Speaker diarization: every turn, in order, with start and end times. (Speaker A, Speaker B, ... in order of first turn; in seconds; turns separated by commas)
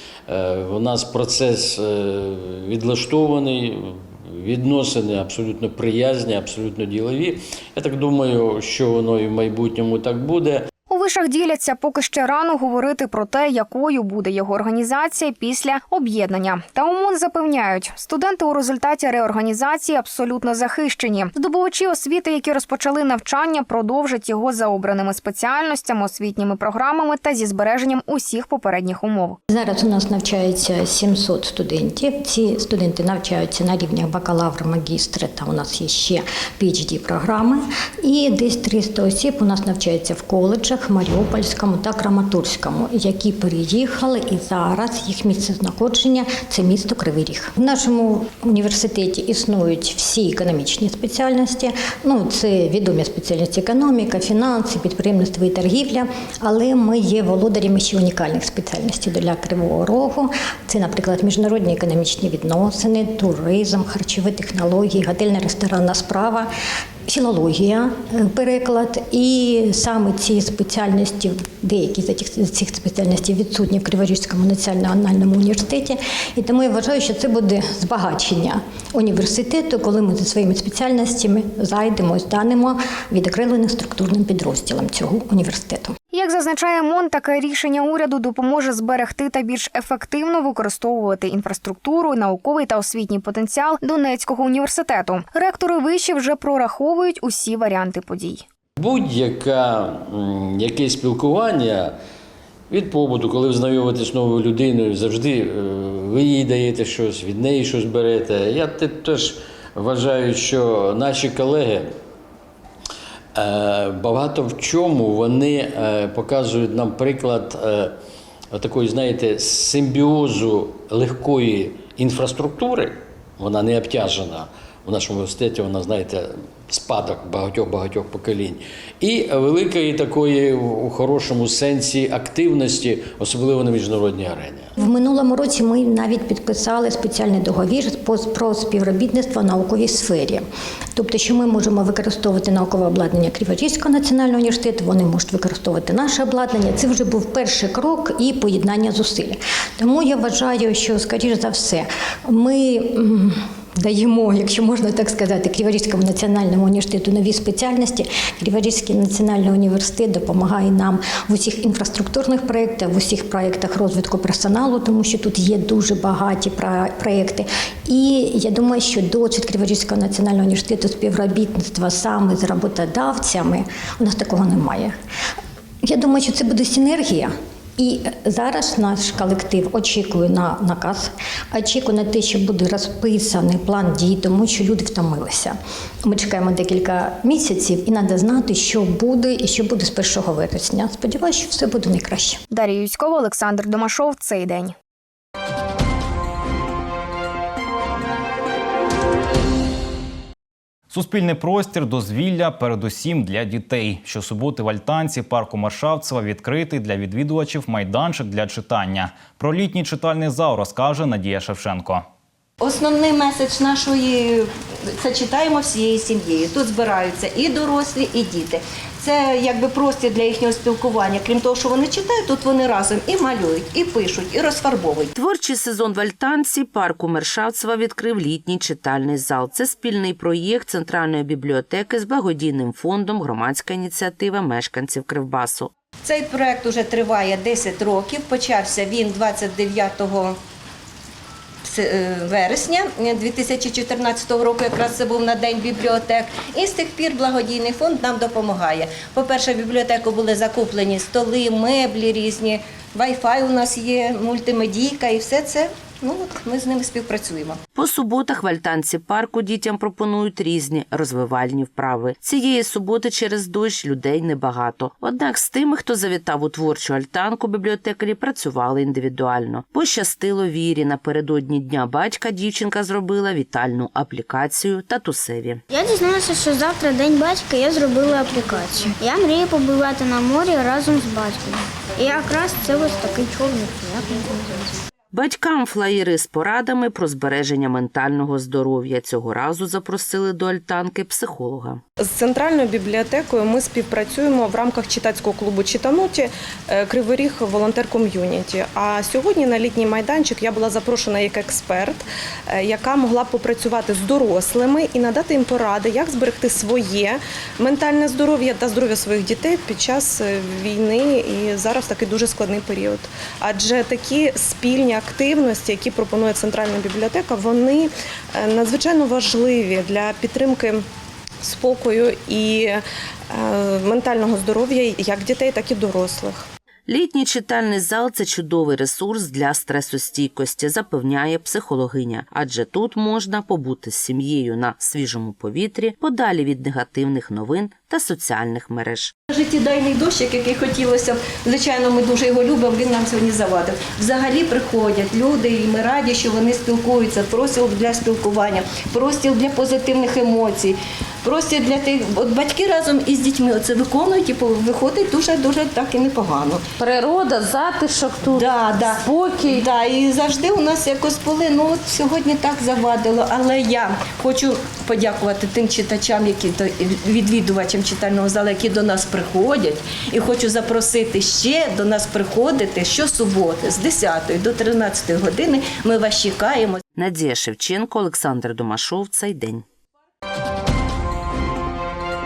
Speaker A: 0.3-10.7, Speaker B: 10.9-29.4, Speaker C: 29.5-66.5, Speaker C: 67.1-86.0, Speaker B: 86.1-98.4, Speaker A: 98.8-101.9, Speaker A: 102.7-111.9, Speaker A: 113.3-118.0, Speaker A: 118.5-134.7, Speaker C: 134.8-174.9, Speaker C: 175.8-192.4, Speaker B: 192.5-194.7, Speaker D: 200.9-212.1, Speaker E: 212.6-225.1, Speaker F: 225.2-235.7, Speaker E: 236.0-240.4, Speaker E: 241.6-257.6, Speaker F: 257.7-275.6, Speaker G: 275.7-284.7, Speaker F: 285.1-291.8, Speaker H: 292.0-320.9, Speaker H: 321.4-326.5, Speaker F: 326.9-339.1, Speaker E: 339.3-356.6, Speaker E: 358.3-376.8, Speaker F: 376.9-379.6